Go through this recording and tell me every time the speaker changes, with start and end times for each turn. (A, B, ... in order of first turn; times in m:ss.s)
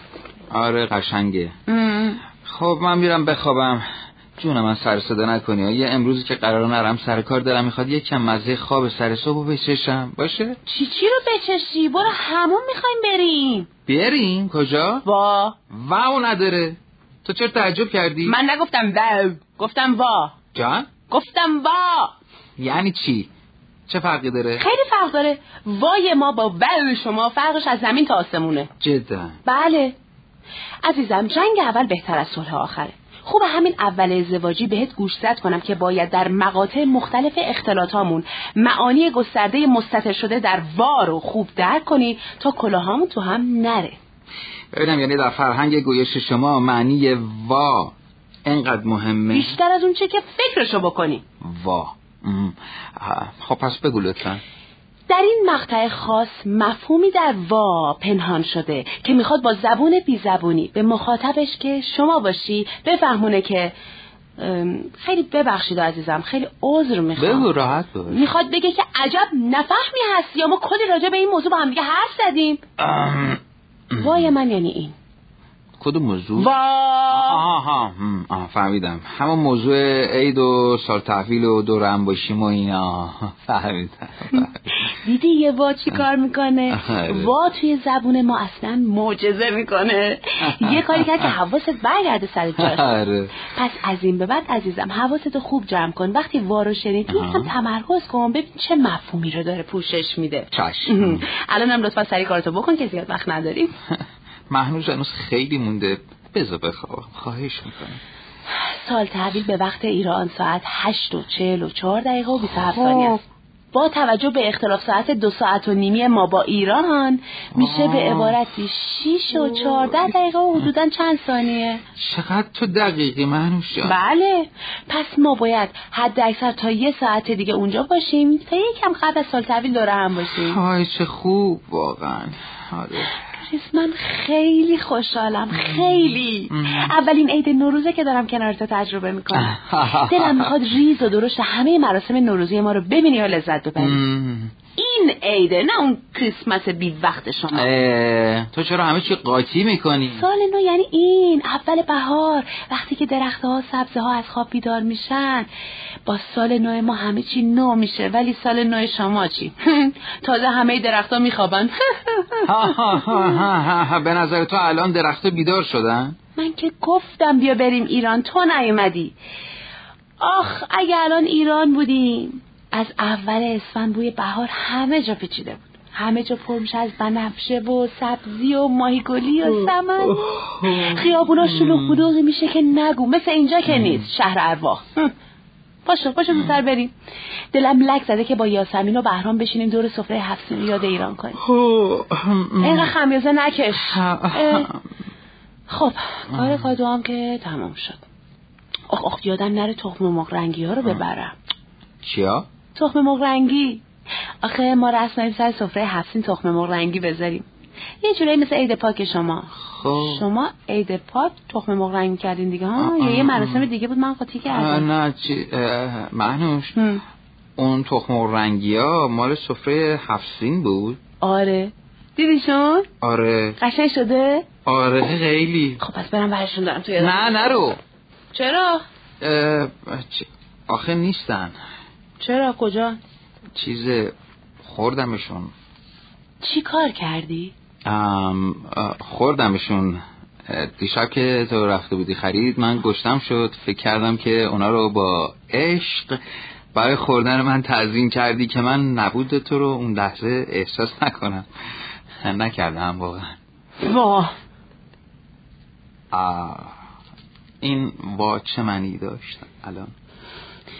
0:00.5-0:01.5 A
0:01.7-0:02.2 B
0:02.4-0:03.8 A
0:04.4-0:10.6 A
0:10.6-0:13.7 B
0:13.9-0:15.0 A
0:15.0-0:15.6 B
0:15.7-0:18.4 A
0:18.2-0:20.3 B
0:20.5-0:20.9 A
0:21.1-0:22.1 B
0:22.6-0:23.3 A
0:23.9-0:24.6 A
0:24.6-0:28.7 B
0:28.8-0:29.4 A
0:29.4-0:30.0 B
0:30.8-0:44.0 B
0:44.7-0:47.9 A
0:48.4-0:49.6 A
0:49.3-0:51.2 B
0:51.4-0:54.4 A
0:55.1-1:03.7 B
1:04.4-1:07.5 B
1:07.2-1:08.3 A
1:08.1-1:12.6 B
1:12.8-1:13.4 A
1:13.9-1:14.3 A
1:14.0-1:14.9 B
1:15.8-1:16.5 A
1:16.4-1:17.4 B
1:17.1-1:24.6 A
1:24.3-1:43.7 B
1:26.7-1:27.3 A
1:30.5-1:31.3 A
1:32.6-1:33.3 A
1:37.1-1:37.5 A
1:40.5-1:41.2 A
1:43.9-1:48.0 A
1:48.6-2:01.8 B
1:52.4-1:53.2 A
1:57.5-1:58.4 A
1:59.5-2:00.0 A
2:02.0-2:04.0 A
2:03.8-2:10.6 B
2:10.3-2:13.1 A
2:13.4-2:24.0 B
2:15.5-2:15.9 A
2:16.5-2:17.0 A
2:19.3-2:20.5 A
2:23.8-2:24.5 A
2:24.8-2:27.7 B
2:27.5-2:30.2 A
2:30.1-2:35.5 B
2:36.0-2:43.3 B
2:42.4-2:46.2 A
2:46.4-2:49.1 B
2:50.2-3:05.1 B
2:59.4-3:02.1 A
3:03.7-3:04.0 A
3:05.8-3:06.9 B
3:07.5-3:11.4 B
3:11.4-3:12.9 A
3:12.6-3:14.7 B
3:13.7-3:14.8 A
3:15.7-3:18.0 B
3:16.3-3:16.7 A
3:18.9-3:21.3 B
3:22.0-3:22.5 A
3:22.7-3:23.8 B
3:24.4-3:27.4 B
3:28.0-3:34.9 B
3:29.6-3:30.3 A
3:32.8-3:33.6 A
3:34.5-3:36.8 A
3:36.8-3:37.0 B
3:37.6-3:41.0 A
3:41.2-3:42.9 B
3:43.0-3:43.6 A
3:43.6-3:44.4 B
3:44.6-3:45.8 A
3:45.8-3:47.7 B
3:47.0-3:47.8 A
3:48.3-3:48.8 B
3:49.2-3:51.6 A
3:52.2-3:53.0 B
3:53.5-3:55.5 A
3:56.4-3:57.5 B
3:57.8-4:06.2 A
4:06.7-4:11.5 A
4:12.2-4:13.4 A
4:13.8-4:14.3 B
4:16.1-4:16.7 A
4:17.6-4:19.9 A